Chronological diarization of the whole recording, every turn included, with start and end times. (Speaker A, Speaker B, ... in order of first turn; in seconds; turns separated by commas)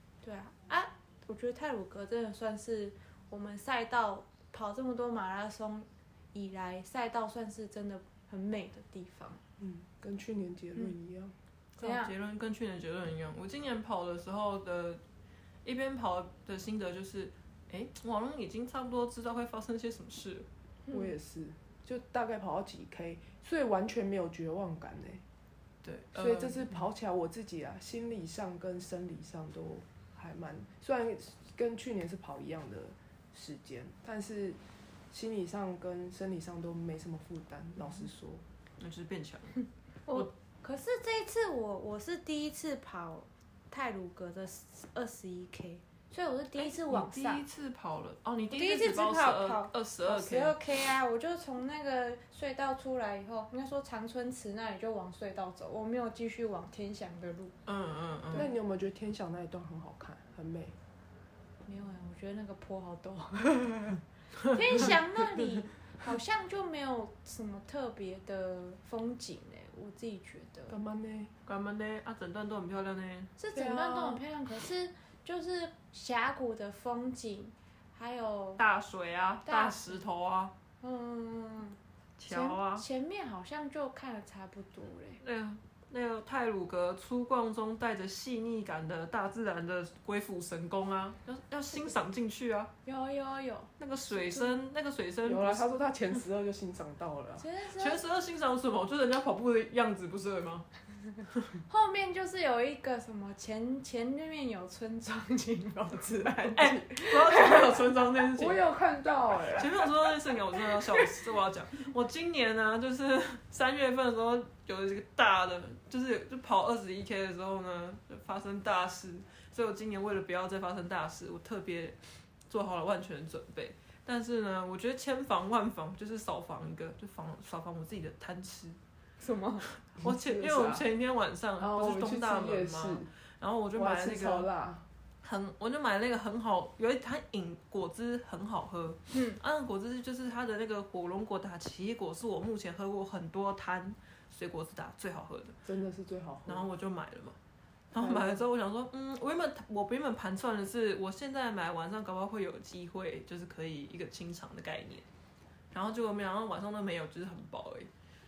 Speaker A: 0.2-9.4, Speaker B: 9.6-11.3, Speaker C: 11.8-15.0, Speaker A: 11.8-12.1, Speaker C: 15.6-20.5, Speaker A: 20.9-21.1, Speaker B: 20.9-25.2, Speaker C: 25.8-26.7, Speaker B: 26.1-34.6, Speaker B: 35.1-38.4, Speaker C: 38.8-39.5, Speaker A: 40.0-47.4, Speaker C: 46.5-50.5, Speaker A: 48.5-57.5, Speaker C: 57.6-58.5, Speaker B: 58.3-60.8, Speaker A: 61.6-64.0, Speaker A: 64.5-70.8, Speaker B: 70.7-71.3, Speaker C: 71.5-73.3, Speaker A: 73.4-78.6, Speaker B: 73.5-74.2, Speaker C: 78.6-80.5, Speaker A: 79.5-80.0, Speaker A: 80.8-85.2, Speaker C: 82.2-82.8, Speaker C: 85.2-92.7, Speaker A: 92.8-94.5, Speaker C: 93.8-95.8, Speaker B: 95.2-97.4, Speaker A: 97.4-98.0, Speaker C: 97.8-100.7, Speaker A: 101.7-107.7, Speaker C: 106.5-108.6, Speaker B: 108.3-109.9, Speaker C: 109.5-122.0, Speaker C: 122.5-128.8, Speaker A: 129.2-129.7, Speaker C: 129.8-134.5, Speaker B: 130.0-130.9, Speaker B: 131.6-133.1, Speaker B: 133.7-134.8, Speaker C: 135.2-145.6, Speaker A: 139.1-139.4, Speaker B: 145.6-146.7, Speaker C: 146.5-147.4, Speaker C: 147.9-155.1, Speaker B: 148.0-148.4, Speaker C: 155.7-157.9